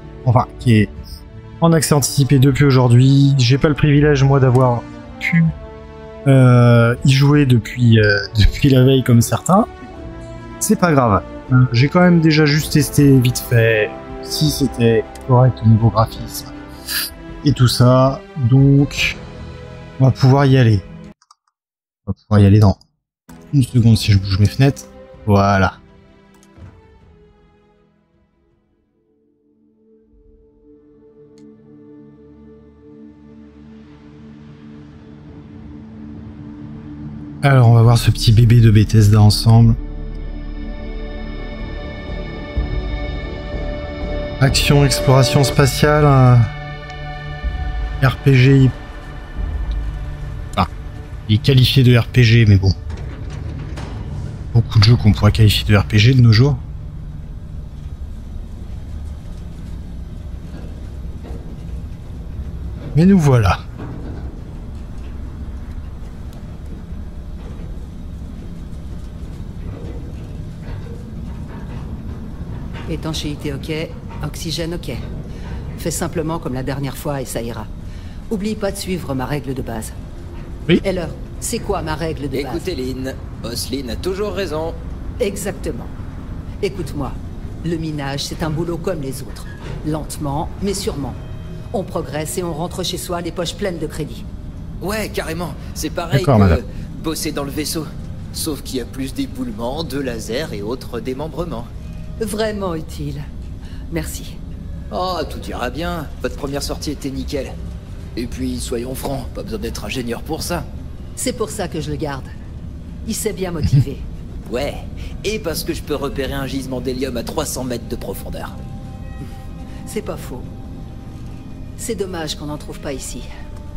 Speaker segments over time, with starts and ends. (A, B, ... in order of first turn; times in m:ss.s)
0:00.2-0:00.9 A
0:01.6-0:05.5 A
0:06.2-0:09.7 A
0:10.6-0:16.5 A
0:17.4-0:19.2 A
0:20.0-0:20.8 A
0:22.0-0:22.8 A
0:23.5-0:25.8 A
0:37.4-0:39.8 A
0:44.4-0:46.5 A
0:48.0-0:48.7 A
0:51.3-0:52.7 A
0:54.5-0:56.6 A
1:02.9-1:03.6 A
1:12.9-1:15.0 B
1:15.8-1:17.7 B
1:18.3-1:19.9 B
1:20.8-1:22.6 B
1:22.3-1:24.8 C
1:25.2-1:25.9 B
1:26.6-1:31.2 B
1:31.7-1:34.2 B
1:34.8-1:41.7 C
1:36.1-1:36.6 A
1:42.2-1:43.2 B
1:43.9-1:44.4 B
1:44.9-1:47.5 C
1:48.2-1:50.6 C
1:51.2-1:52.3 B
1:53.0-1:54.0 B
1:54.5-1:58.6 C
1:59.8-2:00.5 B
2:01.8-2:03.3 B